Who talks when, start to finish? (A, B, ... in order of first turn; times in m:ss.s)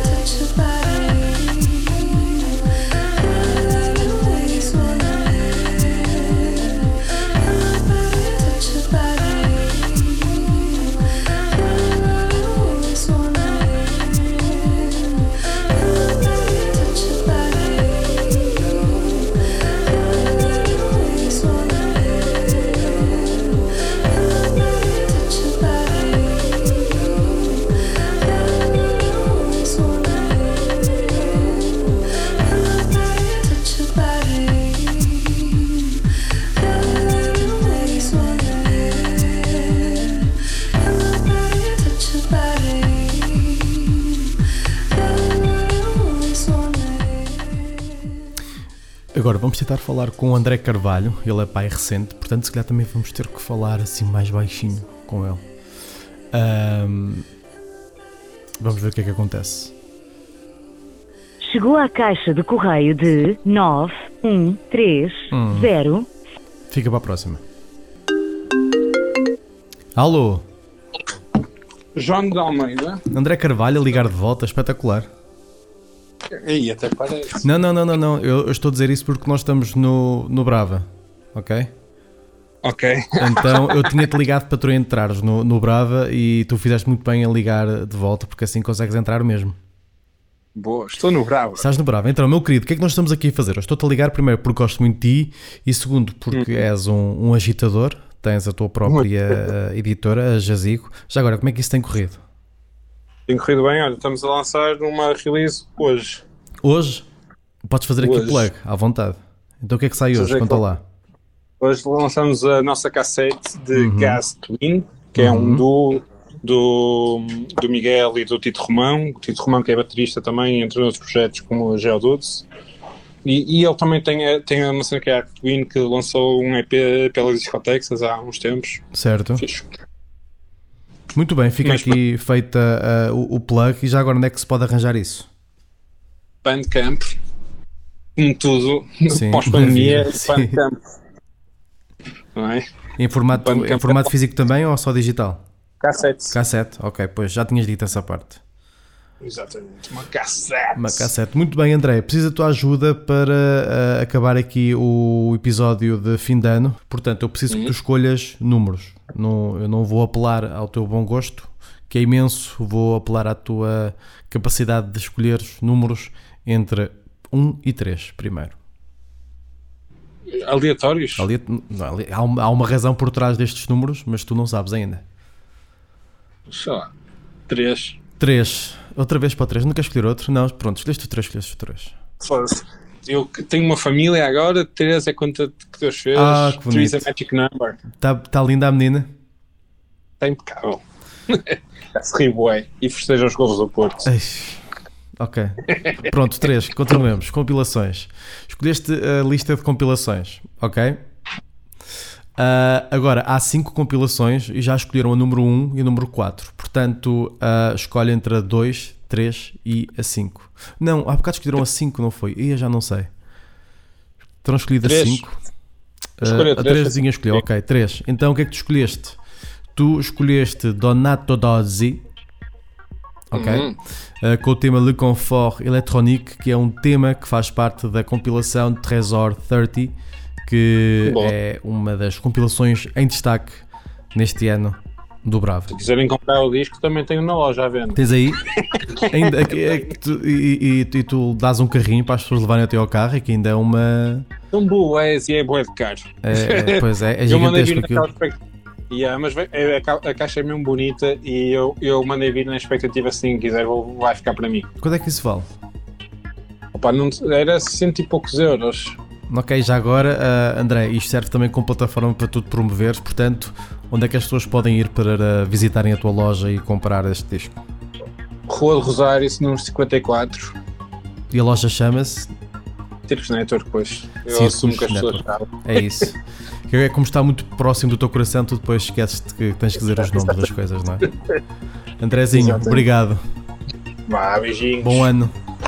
0:49.1-0:55.4 A
0:56.3-0:57.2 A
0:58.6-0:59.7 A
1:01.4-1:06.1 B
1:05.3-1:05.7 A
1:06.7-1:07.4 A
1:10.0-1:10.4 A
1:11.9-1:13.0 C
1:13.1-1:15.1 A
1:16.3-1:17.4 C
1:17.4-1:21.7 A
1:22.6-1:24.0 C
1:23.2-1:29.6 A
1:30.5-1:31.7 C
1:31.6-1:42.2 A
1:36.3-1:36.6 C
1:38.8-1:39.1 C
1:43.3-1:46.2 C
1:46.6-1:47.1 A
1:47.7-1:50.8 A
1:48.0-1:48.5 C
1:50.1-1:50.6 C
1:51.6-2:02.4 C
1:53.7-1:54.2 A
1:55.2-1:55.6 A
2:03.2-2:08.8 C
2:08.9-2:09.4 A
2:09.4-2:09.7 C
2:11.1-2:15.3 A
2:11.6-2:12.0 C
2:16.4-2:17.1 C
2:18.2-2:20.8 C
2:19.1-2:20.6 A
2:22.3-2:22.6 C
2:23.0-2:25.4 A
2:23.3-2:24.1 C
2:25.8-2:26.4 C
2:26.3-2:28.4 A
2:29.2-2:31.1 C
2:30.8-2:48.6 A
2:50.3-2:51.3 C
2:51.2-2:55.0 A
2:56.5-2:56.9 C
2:57.5-2:58.0 C
2:58.2-3:02.0 A
3:02.2-3:07.8 C
3:06.1-3:07.1 A
3:07.9-3:09.1 A
3:10.2-3:14.1 C
3:14.0-3:14.6 A
3:15.2-3:21.0 A
3:15.7-3:16.0 C
3:22.4-3:33.1 A
3:34.4-3:35.4 A
3:34.8-3:35.2 C
3:36.2-3:39.2 A
3:36.2-3:37.4 C
3:39.7-3:42.0 A
3:43.3-3:55.8 A
3:43.3-3:43.8 C
3:51.0-3:51.3 C
3:55.7-3:59.8 C
3:57.9-3:58.4 A
3:59.0-4:04.3 A
4:04.5-4:08.3 C
4:06.2-4:08.1 A
4:08.9-4:14.7 C
4:14.8-4:15.5 A
4:16.7-4:19.0 C
4:19.3-4:27.6 A
4:28.5-4:30.6 C
4:31.3-4:32.3 A
4:33.1-4:35.5 C
4:34.3-4:36.2 A
4:36.7-4:41.1 A
4:40.0-4:40.4 C
4:42.0-4:43.2 A
4:42.3-4:42.8 C
4:44.1-4:45.1 C
4:44.8-4:45.3 A